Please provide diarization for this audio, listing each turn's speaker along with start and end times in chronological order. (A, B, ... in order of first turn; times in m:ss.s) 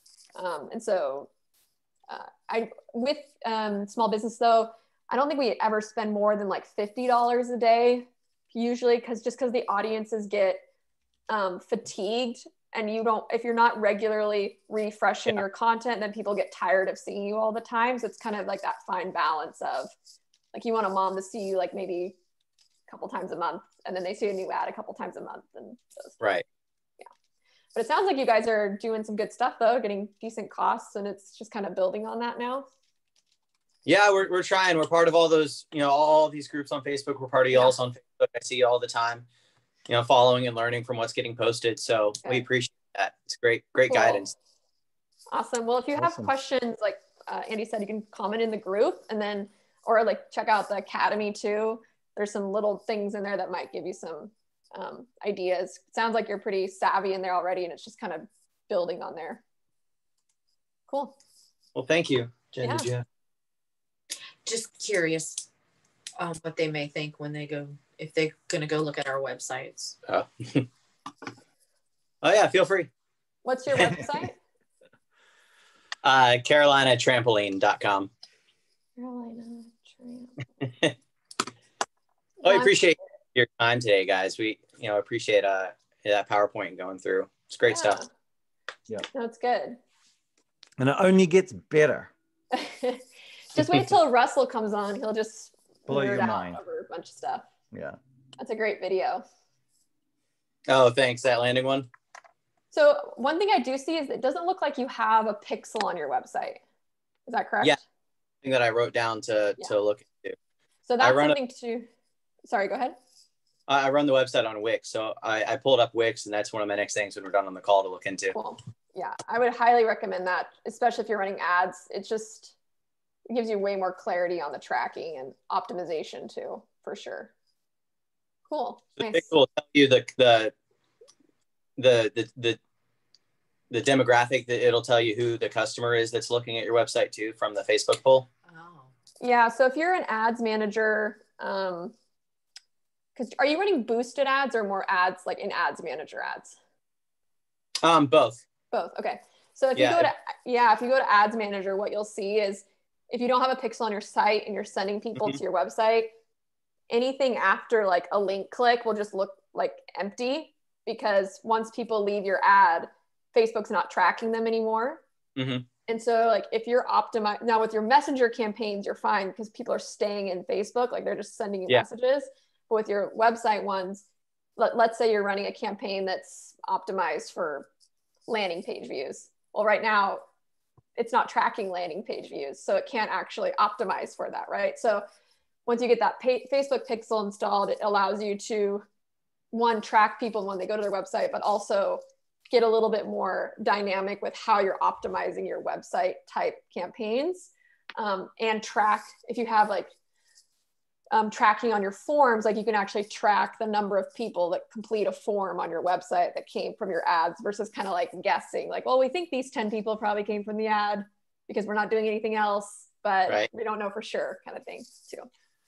0:00.4-0:01.3 A
0:02.1-0:10.6 A
0:11.3-0:19.9 A
0:20.5-0:22.2 A
0:22.9-0:26.2 A
0:27.7-0:32.7 A
0:33.8-0:39.2 B
0:39.9-0:44.3 B
0:43.9-0:44.2 A
0:45.3-0:59.4 A
0:46.0-0:46.3 C
1:00.9-1:01.2 A
1:01.7-1:03.0 B
1:02.6-1:02.9 A
1:04.4-1:05.5 D
1:06.2-1:10.0 D
1:10.0-1:10.7 B
1:12.2-1:12.9 B
1:13.4-1:14.4 A
1:13.7-1:14.0 B
1:16.0-1:18.1 B
1:19.0-1:20.5 A
1:20.6-1:20.9 B
1:22.4-1:22.7 A
1:22.4-1:28.0 B
1:27.7-1:28.1 A
1:29.1-1:29.8 A
1:30.8-1:32.1 C
1:32.5-1:33.0 A
1:33.5-1:37.5 A
1:35.9-1:36.6 C
1:37.7-1:38.0 C
1:38.4-1:39.2 A
1:40.7-1:41.9 B
1:42.7-1:46.6 A
1:47.3-1:47.8 A
1:48.4-1:50.4 B
1:50.8-1:51.9 A
1:51.0-1:51.4 B
1:52.4-1:53.0 A
1:53.7-1:58.4 B
1:58.3-2:02.5 A
2:03.3-2:07.3 A
2:08.5-2:09.2 A
2:09.0-2:10.5 B
2:11.8-2:12.6 B
2:13.7-2:18.3 B
2:18.5-2:18.9 D
2:19.2-2:21.9 A
2:23.2-2:26.6 A
2:27.8-2:28.4 B
2:28.7-2:36.1 A
2:29.8-2:30.1 B
2:36.9-2:45.0 A
2:45.4-2:45.6 B
2:45.9-2:54.0 A
2:54.6-2:57.7 A
2:58.3-3:00.2 A
3:01.0-3:05.0 A
3:05.6-3:08.8 A
3:09.5-3:19.9 A
3:21.1-3:35.3 A